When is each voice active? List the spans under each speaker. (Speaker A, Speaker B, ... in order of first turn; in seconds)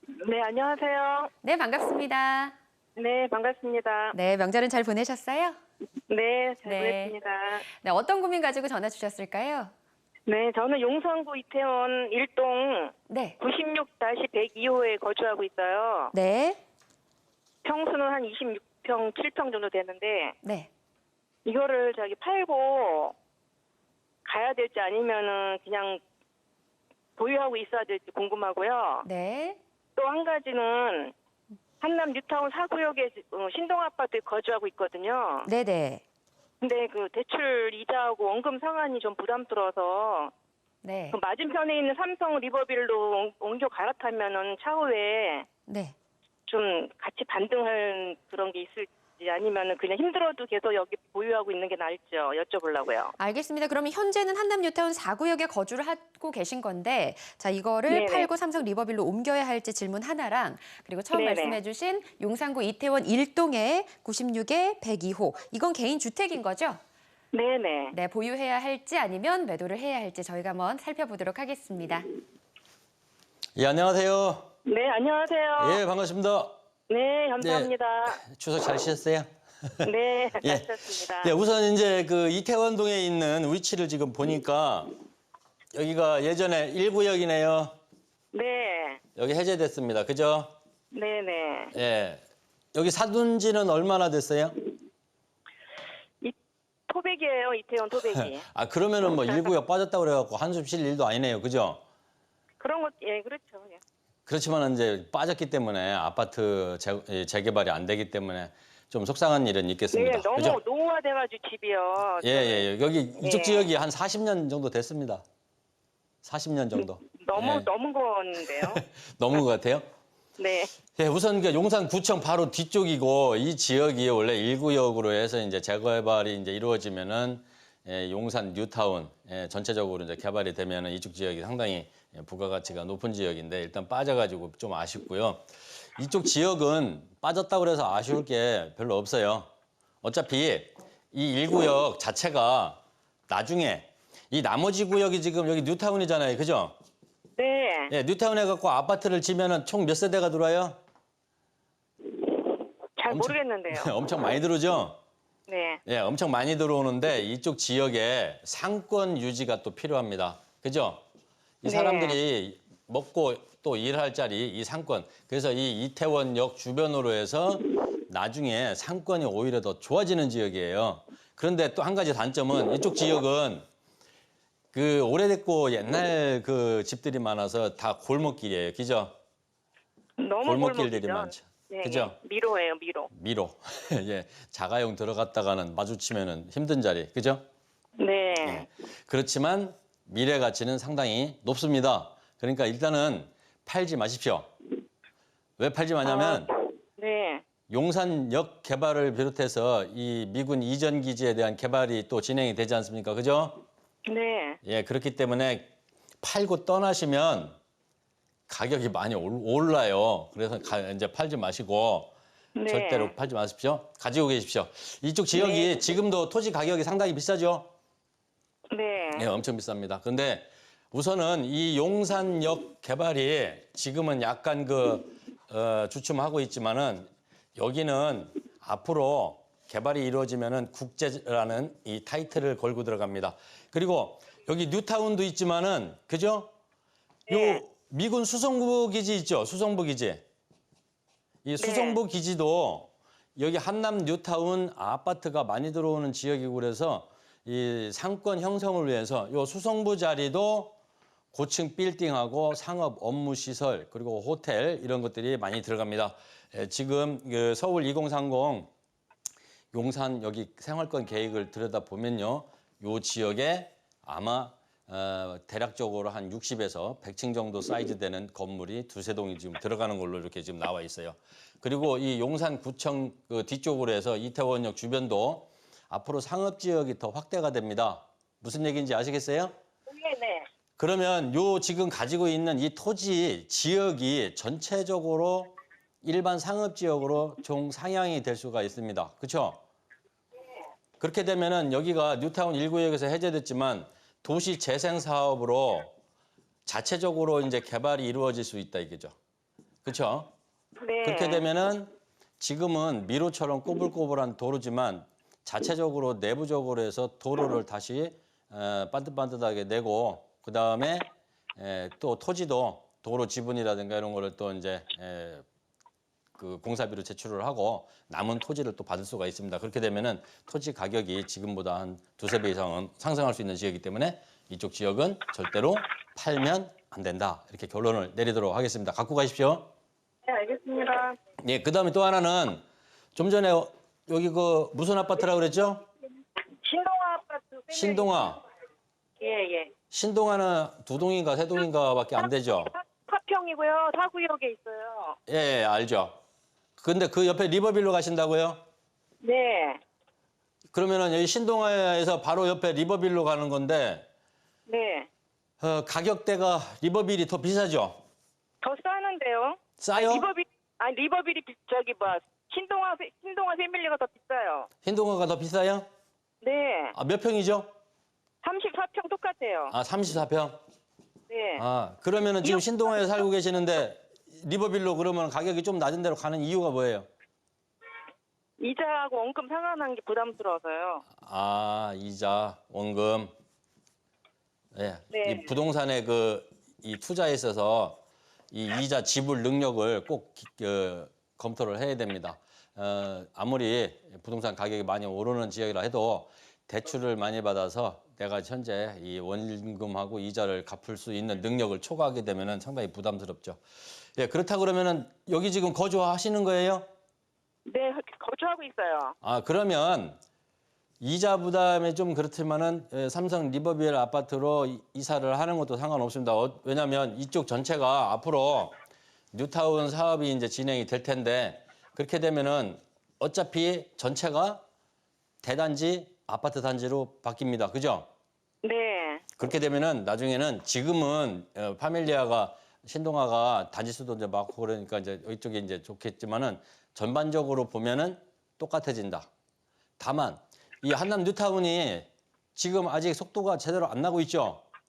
Speaker A: 0.1-1.3, 3.0-4.2, 6.1-7.7, 10.2-16.1, 17.6-20.4, 21.4-23.1, 24.2-26.0, 27.2-29.1, 29.9-31.1, 31.8-35.5, 36.6-40.3, 41.1-45.5, 46.5-53.1, 57.9-58.3, 61.1-61.6, 67.3-67.9, 74.6-75.8, 76.9-78.2, 79.8-81.3, 88.3-89.0, 90.9-91.7, 96.9-98.5, 102.6-103.8, 109.9-112.7, 113.2-113.7, 116.8-118.8, 120.4-120.7, 147.4-147.9, 152.2-154.0, 155.5-155.8, 161.6-162.2, 180.2-183.1, 188.0-188.7, 196.0-197.4, 204.1-204.6, 212.5-213.1, 215.3-215.7, 218.7-219.3, 237.3-237.6, 241.6-242.0, 279.9-280.5, 300.8-301.5, 330.2-331.2, 336.6-338.3, 339.2-339.7, 342.7-345.2, 349.2-349.8, 354.7-355.1, 358.6-364.7, 366.4-366.9, 368.4-369.7, 371.3-371.6, 378.6-381.0, 385.1-385.5, 407.7-409.1, 428.6-429.2
Speaker B: 1.4-2.5, 4.1-5.6, 6.6-7.1, 7.8-9.7, 13.1-13.3, 16.1-16.6, 20.4-20.7, 29.0-29.6, 35.4-36.0, 40.8-41.2, 45.7-45.9, 53.2-66.8, 67.9-72.1
Speaker C: 73.5-74.5, 75.6-76.5, 77.4-79.9, 80.4-84.9, 85.7-87.7, 89.2-90.5, 91.7-92.2, 92.7-94.5, 98.1-101.8, 104.3-110.6, 112.2-115.2, 116.2-117.7, 118.7-119.9, 120.9-139.5, 140.0-146.7, 147.9-150.8, 153.1-155.0, 155.8-161.0, 161.6-173.6, 174.7-179.1, 180.4-182.2, 183.1-187.4, 188.4-194.5, 195.6-196.5, 197.7-203.6, 204.6-205.7, 206.2-207.6, 208.5-212.1, 212.7-217.7, 219.1-236.5, 237.3-240.2, 241.4-250.8, 251.3-258.7, 259.7-279.5, 280.8-289.6, 291.0-295.9, 296.6-299.1, 299.8-300.3, 301.0-315.4, 316.4-329.7, 331.4-332.6, 333.1-335.8, 337.7-338.4, 339.9-342.7, 345.3-346.1, 346.8-348.6, 350.7-354.1, 355.6-358.0, 359.8-360.3, 364.8-365.9, 366.9-367.7, 369.7-370.6, 371.6-377.1, 381.2-383.3, 384.7-403.6, 404.2-406.9, 409.2-410.2, 411.0-418.8, 419.3-424.6, 425.4-428.1, 429.4-439.3, 440.0-444.6